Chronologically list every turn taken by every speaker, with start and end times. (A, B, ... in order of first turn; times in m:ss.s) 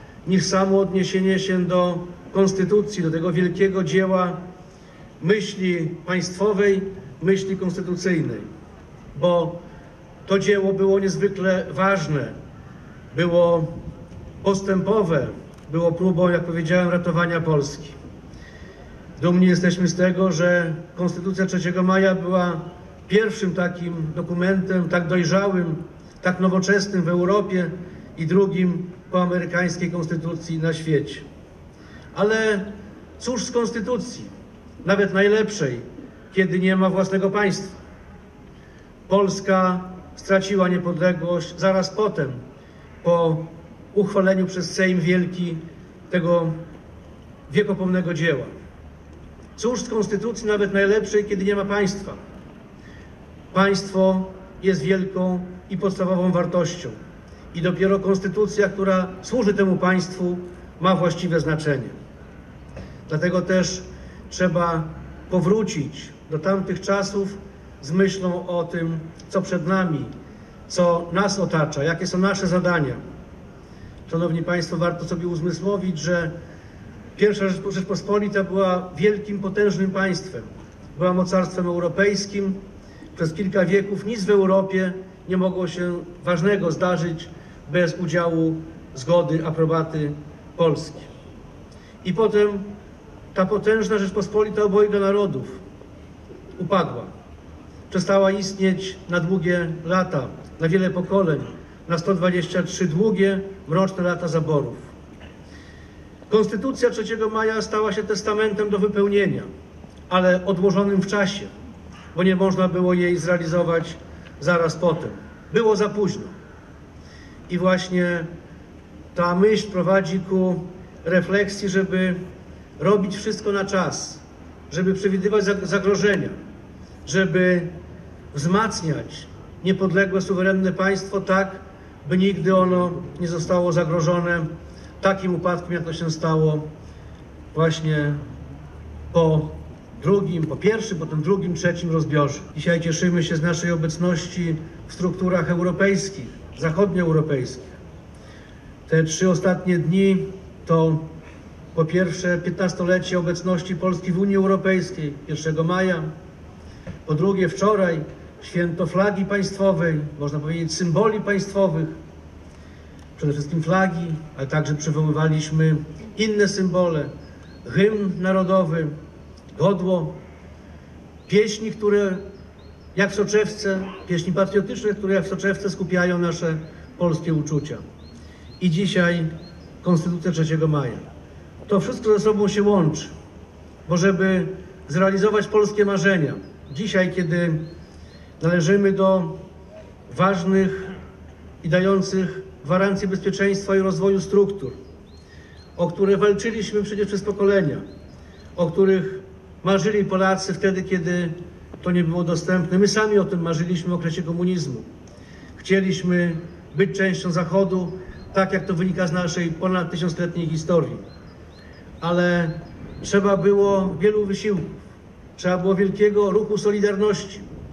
0:00.2-0:04.4 A
0:05.2-0:08.5 A
0:09.1-0:09.6 A
0:10.2-0:12.4 A
0:13.1-0:13.7 A
0:14.4-0:18.0 A
0:19.2-0:31.2 A
0:32.1-0:34.3 A
0:34.8-0:37.8 A
0:39.1-0:42.4 A
0:43.0-0:46.6 A
0:47.5-0:48.5 A
0:49.6-0:52.2 A
0:53.5-0:57.0 A
0:57.5-1:01.9 A
1:03.1-1:10.1 A
1:10.7-1:13.0 A
1:14.1-1:16.3 A
1:17.2-1:22.6 A
1:23.1-1:31.1 A
1:32.0-1:32.8 A
1:33.3-1:35.6 A
1:36.6-1:37.1 A
1:37.9-1:44.9 A
1:46.3-1:49.5 A
1:50.1-1:51.5 A
1:52.1-1:56.3 A
1:57.5-1:58.3 A
1:59.1-2:02.2 A
2:02.8-2:06.4 A
2:07.0-2:07.7 A
2:08.3-2:14.5 A
2:15.0-2:16.7 A
2:17.5-2:18.2 A
2:19.1-2:27.8 A
2:28.9-2:31.1 A
2:31.7-2:36.1 A
2:37.0-2:42.0 A
2:43.2-2:47.1 A
2:47.6-2:48.9 A
2:49.5-2:50.2 A
2:51.2-2:52.2 A
2:52.9-2:57.8 A
2:58.6-2:59.3 A
2:59.8-3:01.1 A
3:01.6-3:03.1 A
3:03.8-3:07.7 A
3:08.4-3:09.4 A
3:10.1-3:10.9 A
3:11.6-3:14.8 A
3:15.8-3:17.8 A
3:18.5-3:24.9 A
3:25.6-3:31.0 A
3:32.0-3:34.8 A
3:35.4-3:37.5 A